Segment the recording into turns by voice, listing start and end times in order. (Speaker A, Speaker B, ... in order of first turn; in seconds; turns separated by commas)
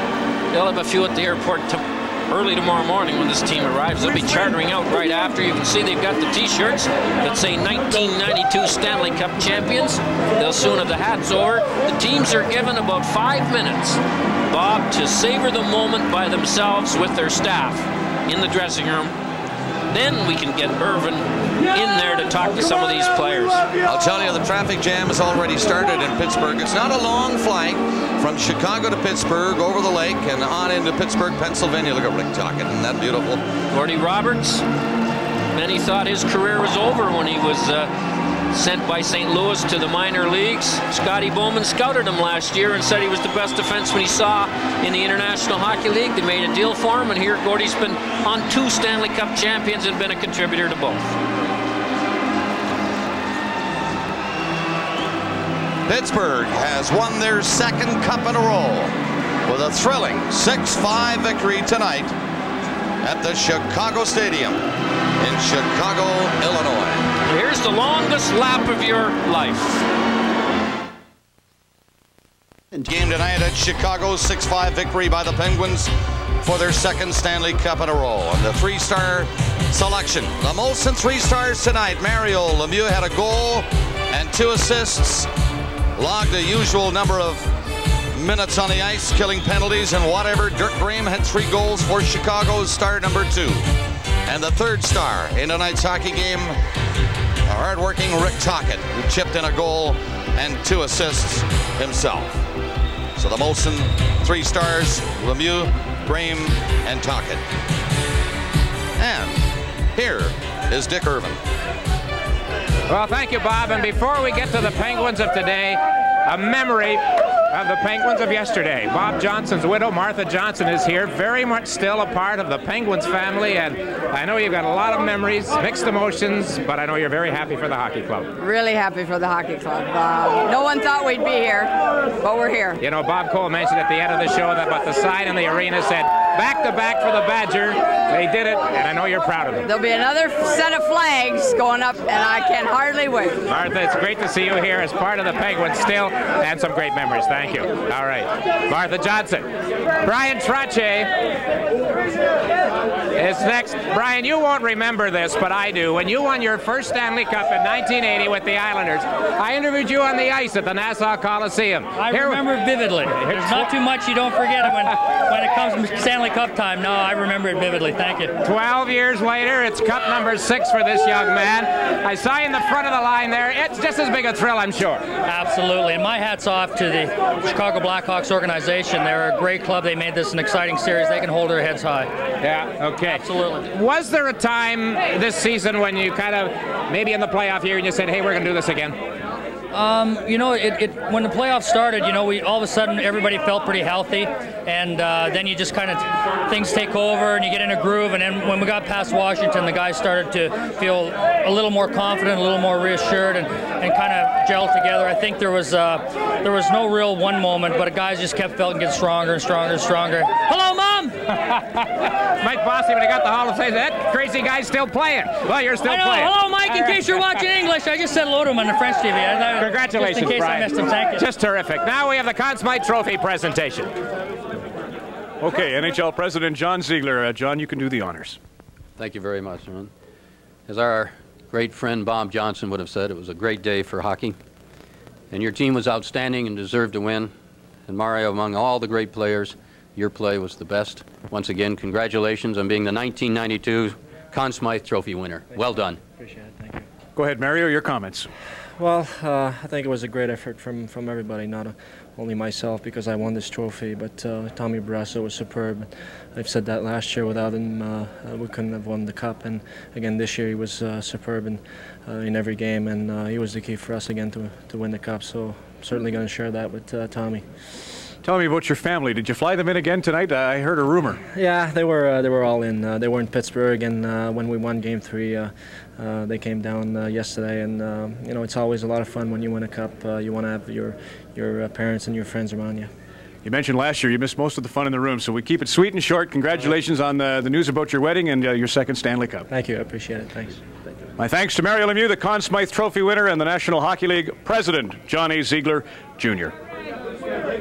Speaker A: 0.5-19.1, Speaker A: 19.9-23.7, Speaker B: 23.8-33.4, Speaker A: 33.7-34.6, Speaker A: 35.5-37.9, Speaker A: 38.5-51.1, Speaker B: 55.9-58.9, Speaker B: 59.5-62.1, Speaker B: 63.0-64.6, Speaker B: 65.2-67.1, Speaker A: 67.3-69.8, Speaker B: 72.8-75.9, Speaker B: 76.4-85.3, Speaker B: 86.0-87.5, Speaker B: 88.1-93.7, Speaker B: 94.3-96.6, Speaker B: 97.5-102.4, Speaker B: 103.2-107.4, Speaker B: 109.0-111.4, Speaker C: 112.9-128.3, Speaker D: 128.4-132.8, Speaker C: 132.8-139.7, Speaker D: 139.7-143.4, Speaker C: 143.5-149.5, Speaker C: 150.0-151.1, Speaker C: 153.2-162.4, Speaker E: 162.0-168.4, Speaker C: 163.1-163.7, Speaker C: 168.4-175.1, Speaker E: 175.3-182.1, Speaker C: 182.4-189.0, Speaker E: 183.0-183.7, Speaker E: 189.7-211.2, Speaker C: 211.3-217.0, Speaker E: 215.8-221.3, Speaker C: 219.6-223.9, Speaker F: 225.4-228.4, Speaker G: 229.0-229.9, Speaker G: 230.7-234.4, Speaker G: 235.3-237.3, Speaker G: 237.9-246.0, Speaker H: 246.2-246.9, Speaker F: 247.2-248.3, Speaker H: 248.8-267.4, Speaker F: 268.2-271.2, Speaker H: 271.3-282.9, Speaker F: 283.4-289.5, Speaker H: 289.5-290.6, Speaker F: 291.2-296.5